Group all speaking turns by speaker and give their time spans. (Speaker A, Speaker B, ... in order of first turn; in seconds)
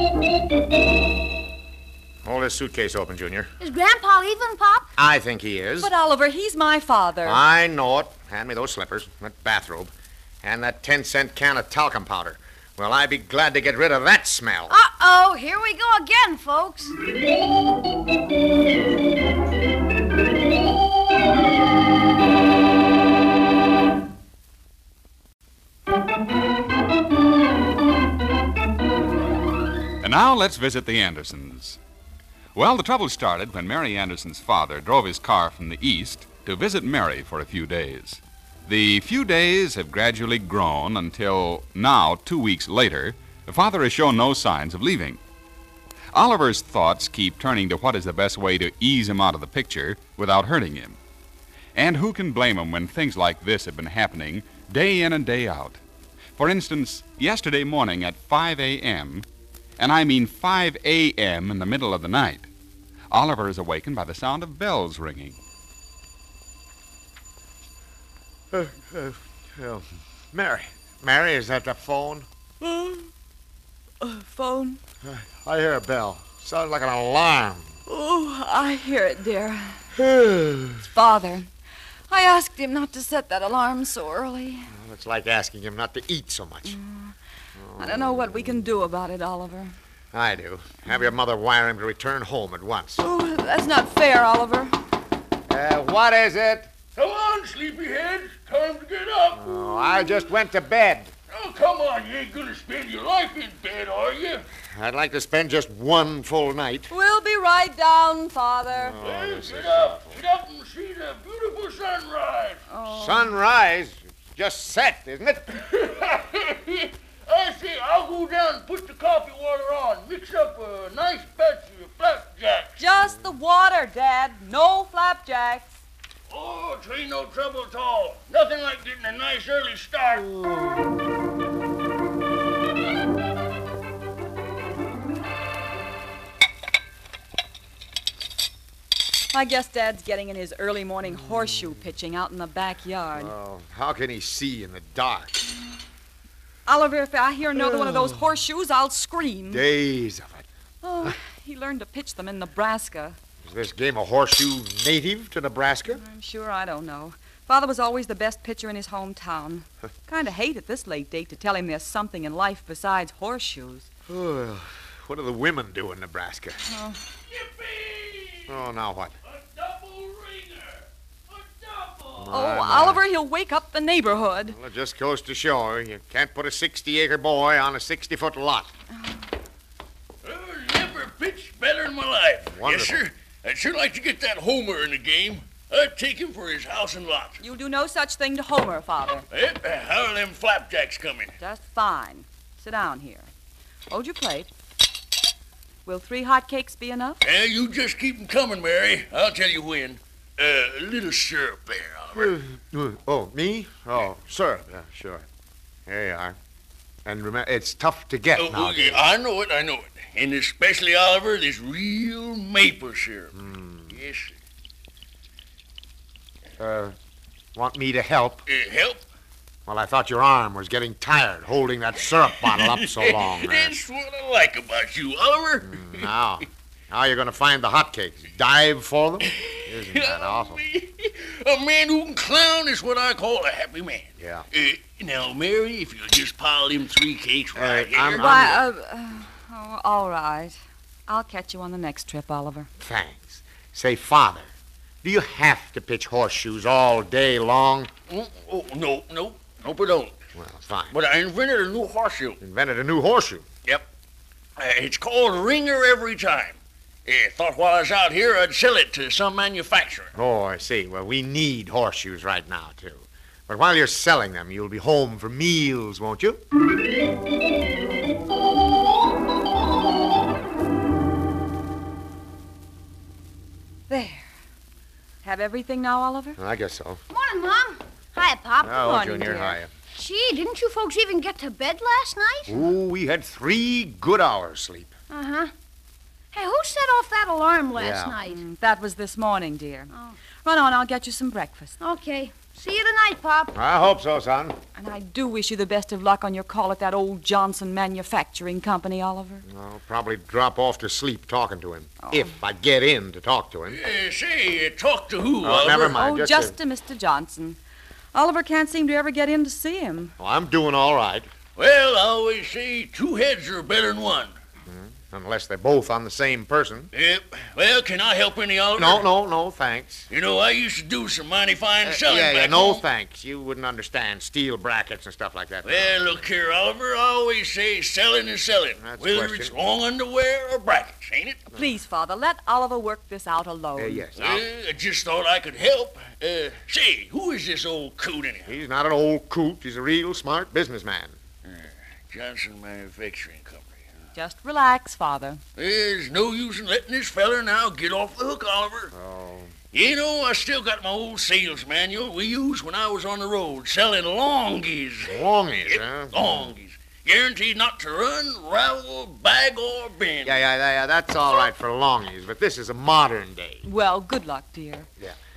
Speaker A: 2.2-3.5, 5.0-5.9, 7.2-9.9, 10.4-14.8, 68.5-72.3, 75.0-77.7, 79.9-80.8, 84.7-86.8, 87.6-88.7, 90.1-93.0, 95.5-96.7, 99.3-101.1, 104.7-106.9, 108.7-110.2, 112.9-115.8, 130.4-130.8, 143.2-145.4, 147.5-148.2, 149.5-150.4, 153.4-156.0, 164.1-166.6, 168.5-169.1, 172.2-173.0, 174.5-178.7, 182.5-183.0, 202.1-205.2, 205.9-206.4, 207.0-209.1, 213.3-213.9, 216.6-216.9, 217.5-218.4, 219.7-223.7, 225.6-230.6, 234.2-234.4, 237.5-238.6, 242.8-244.5, 245.0-247.9, 250.3-251.0, 252.4-253.4, 260.1-266.4, 276.4-277.0, 278.6-279.7, 282.5-284.9, 287.7-288.2, 293.5-294.6, 299.4-303.8, 305.4-306.6, 310.2-311.3, 314.7-316.9, 318.8-320.1, 321.8-326.3, 328.8-329.5, 333.8-334.5, 338.5-341.2, 348.9-349.5, 355.0-356.5, 360.2-363.6
Speaker B: 3.6-4.9, 14.7-16.9, 277.1-282.6, 285.1-285.5, 286.3-288.4, 291.8-293.6
Speaker C: 5.8-7.4, 72.6-73.1, 74.0-74.8, 77.9-79.9, 80.8-81.5, 82.1-84.7, 86.6-87.1, 87.8-89.7, 93.0-94.7, 106.9-109.0, 112.7-113.3, 122.8-125.8, 139.3-143.3, 146.7-149.7, 150.8-153.2, 155.9-163.9, 166.7-167.0, 172.3-174.6, 187.4-189.2, 191.4-193.3, 193.9-194.5, 195.8-197.2, 238.2-242.7, 273.9-274.3, 275.2-276.4, 288.2-289.9, 290.4-291.7, 294.8-299.4, 302.0-302.4, 305.9-307.6, 308.1-310.1, 331.5-334.1, 344.1-345.4, 363.6-364.9
Speaker D: 30.0-31.8, 32.5-45.2, 46.1-51.0, 51.7-55.8, 56.4-59.2, 59.8-62.5, 63.1-65.4
Speaker E: 97.0-99.5, 101.3-104.5, 109.0-112.6, 115.6-122.8, 126.3-130.3, 167.3-168.6, 169.2-172.3, 180.2-187.4, 189.3-191.3, 197.2-202.3, 208.3-213.3, 213.9-214.3, 218.5-219.0, 222.4-226.1, 229.3-238.5, 248.1-250.2, 250.9-252.4, 254.6-260.1, 303.7-306.0, 311.6-314.3, 316.9-319.1, 320.1-322.8, 325.6-331.4, 334.1-338.5, 341.4-343.8, 345.6-348.9, 349.7-355.1, 355.7-360.4